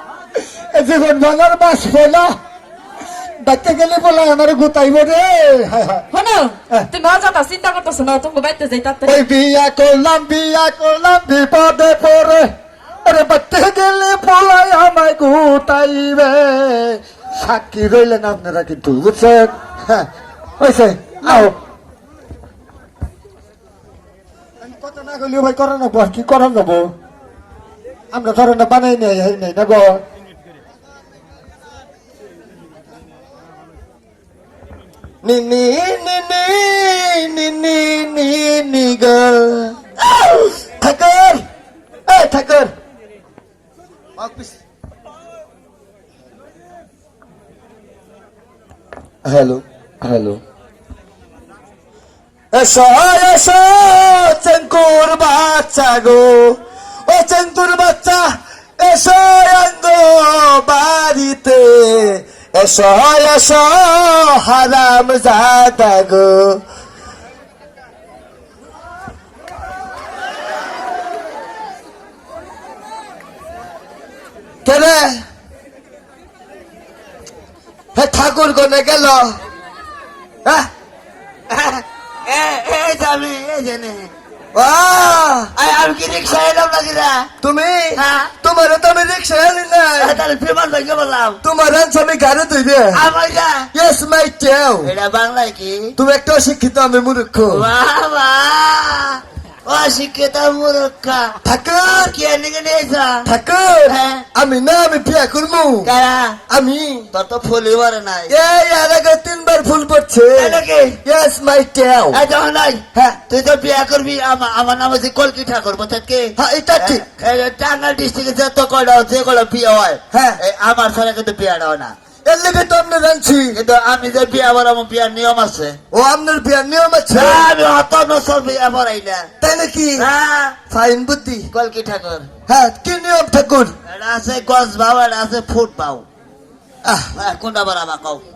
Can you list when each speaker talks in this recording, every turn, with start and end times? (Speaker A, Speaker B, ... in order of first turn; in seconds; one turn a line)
Speaker A: 0.4-2.3
Speaker A: 3.4-6.0
Speaker B: 6.1-9.2
Speaker A: 9.0-12.5
Speaker A: 13.0-20.1
Speaker A: 20.6-21.5
Speaker A: 24.6-26.9
Speaker A: 28.1-30.0
Speaker C: 35.2-41.4
Speaker C: 42.1-42.7
Speaker C: 44.2-44.5
Speaker C: 49.2-50.4
Speaker C: 52.5-66.6
Speaker C: 74.6-75.2
Speaker C: 77.9-79.4
Speaker D: 81.5-84.1
Speaker C: 84.5-85.5
Speaker D: 85.5-87.3
Speaker C: 87.4-90.2
Speaker D: 88.0-88.3
Speaker D: 90.0-91.4
Speaker C: 91.4-93.0
Speaker D: 92.9-93.7
Speaker C: 93.7-94.9
Speaker D: 94.8-95.9
Speaker C: 96.0-97.7
Speaker D: 97.5-103.3
Speaker C: 101.4-102.1
Speaker C: 103.2-105.9
Speaker D: 103.8-104.2
Speaker D: 105.8-106.4
Speaker C: 106.5-107.1
Speaker D: 107.1-108.3
Speaker C: 108.3-112.2
Speaker D: 110.4-111.0
Speaker D: 112.1-121.9
Speaker C: 116.4-117.0
Speaker C: 120.1-120.4
Speaker C: 122.2-123.5
Speaker D: 123.5-125.8
Speaker C: 125.9-127.5
Speaker D: 127.1-129.3
Speaker C: 129.4-130.1
Speaker D: 130.0-130.6
Speaker C: 130.7-131.5
Speaker D: 131.5-132.3
Speaker C: 132.5-133.7
Speaker D: 133.8-136.0
Speaker C: 136.8-137.1
Speaker D: 137.1-138.2